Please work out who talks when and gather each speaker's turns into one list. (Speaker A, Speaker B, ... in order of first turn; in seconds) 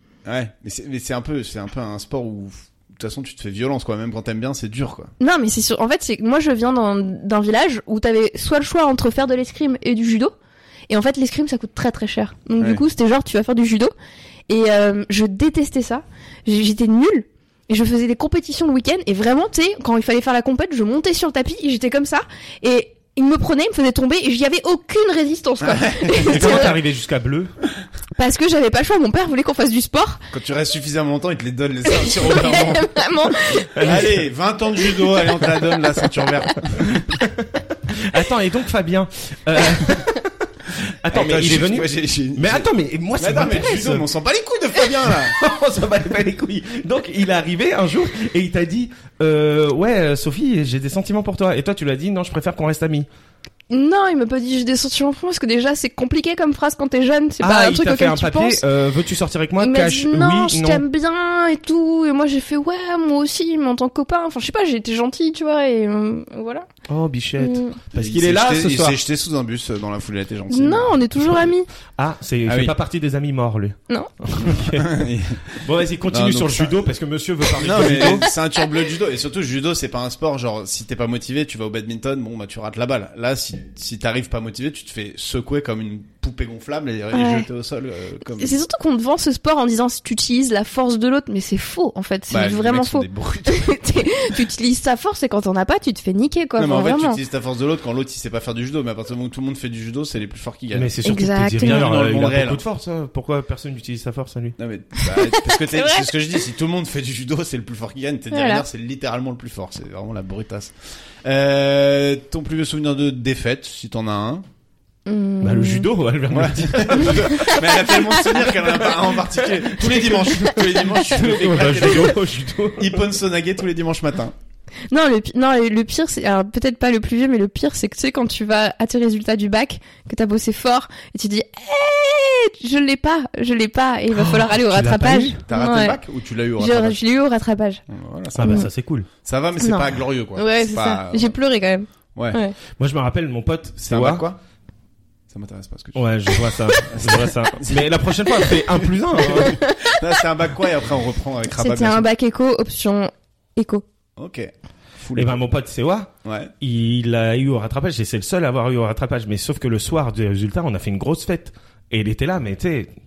Speaker A: 0.2-5.1, 12.6-12.8, 25.6-26.7, 30.3-32.9, 33.8-37.2, 41.1-45.4, 67.9-71.3, 72.5-72.7, 74.4-75.6, 76.1-76.9, 77.6-88.6, 92.3-94.4, 96.5-100.9, 101.6-102.6, 104.6-110.7, 111.2-114.4, 116.3-122.2, 122.8-124.3, 135.4-137.0, 137.9-138.7, 139.2-141.4, 142.1-142.4, 143.8-144.4, 145.3-146.0, 146.7-152.1, 154.2-155.4, 156.2-156.5
Speaker B: 5.2-10.3, 10.9-13.9, 14.5-26.7, 28.1-30.2, 31.9-34.0, 53.7-58.6, 59.6-66.7, 67.4-67.8, 70.5-71.7, 87.1-87.5, 88.4-97.2, 101.0-101.9, 105.0-106.0, 108.3-108.6, 115.0-115.9, 117.2-118.5, 124.9-136.0, 136.6-137.8, 138.4-138.7, 139.6-142.5, 149.3-150.1, 151.6-153.8
Speaker C: 26.2-27.5, 33.7-34.2, 37.2-40.3, 40.9-44.0, 45.0-53.1, 57.4-60.8, 66.9-69.0, 72.0-78.3, 100.7-104.5, 115.4-117.6, 119.4-123.0, 134.1-135.4, 138.3-139.1, 142.8-144.2, 145.9-149.6, 155.1-162.9